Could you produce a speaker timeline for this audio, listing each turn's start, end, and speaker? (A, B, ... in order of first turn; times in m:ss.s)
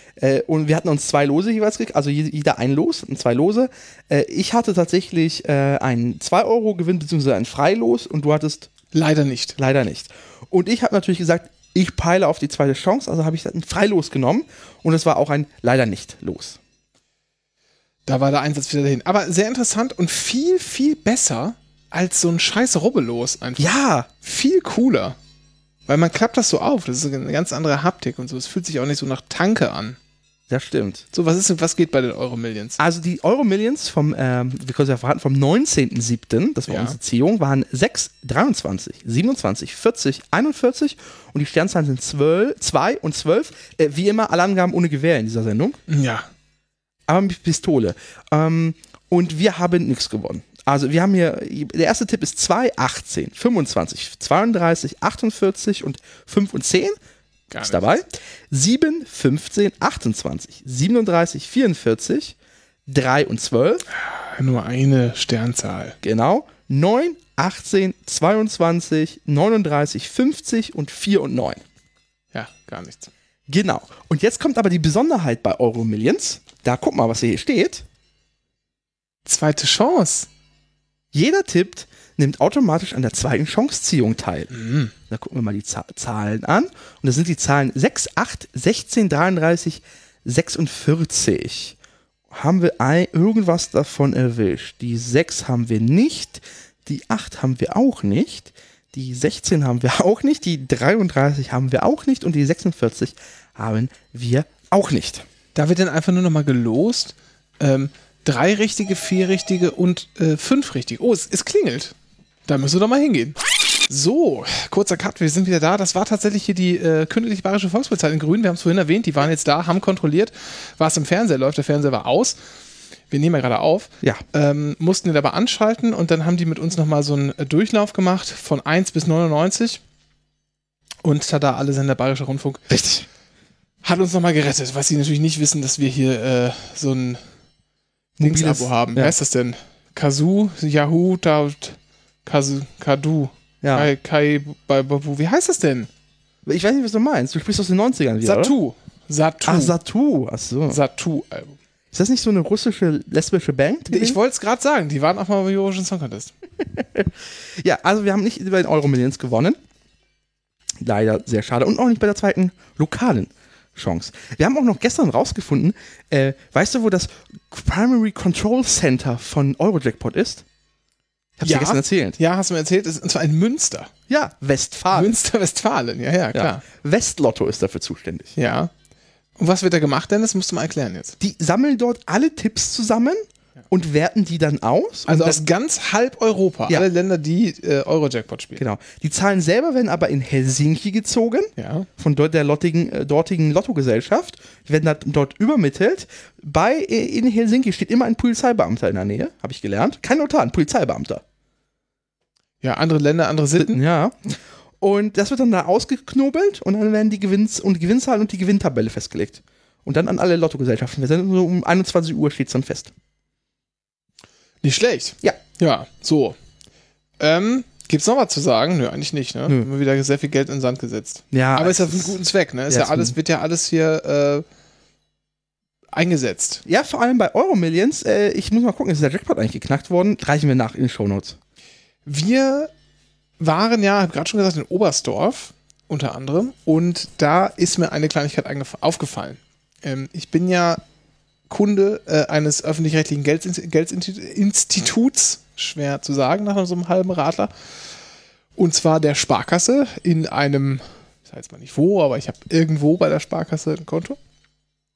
0:00.2-0:08.7 A
0:08.9-0:09.6 B
0:09.6-0:16.6 A
0:18.1-0:25.2 B
0:23.6-0:24.1 A
0:25.9-0:30.0 B
0:30.5-0:31.1 A
0:31.1-0:32.8 B
0:32.8-0:45.8 A
0:36.7-0:37.0 B
0:45.9-0:46.3 B
0:47.1-0:57.0 A
0:57.5-0:58.0 B
0:57.6-1:02.4 A
1:02.9-1:03.9 A
1:03.9-1:06.0 B
1:06.0-1:11.6 A
1:12.3-1:13.1 B
1:13.5-1:17.8 A
1:19.2-1:20.3 B
1:21.1-1:24.5 A
1:24.5-1:24.9 B
1:25.1-1:31.8 A
1:32.3-1:45.3 A
1:45.6-1:52.0 B
1:52.5-2:02.4 B
2:03.1-2:09.8 B
2:11.0-2:12.7 B
2:12.7-2:13.1 A
2:13.8-2:17.2 B
2:18.2-2:19.1 A
2:18.2-2:25.9 B
2:23.6-2:23.9 A
2:26.5-2:28.5 A
2:28.2-2:29.8 B
2:29.4-2:30.8 A
2:30.7-2:31.6 B
2:31.9-2:34.2 A
2:33.9-2:36.3 B
2:36.7-2:39.6 A
2:40.8-2:50.4 A
2:51.4-2:52.2 A
2:51.4-2:53.9 B
2:54.1-2:55.1 A
2:54.9-2:56.6 B
2:56.3-2:58.3 A
2:58.4-2:58.7 B
2:59.4-3:01.2 B
3:01.2-3:05.4 A
3:05.1-3:08.6 B
3:08.6-3:21.2 A
3:11.6-3:11.9 B
3:22.6-3:23.8 B
3:23.6-3:32.9 A
3:34.6-3:36.4 B
3:37.2-3:44.4 B
3:41.3-3:42.2 A
3:42.7-3:43.2 A
3:45.9-3:46.6 B
3:46.6-3:51.4 A
3:52.0-3:52.7 B
3:53.4-4:00.8 B
4:01.5-4:07.5 B
4:08.6-4:14.2 B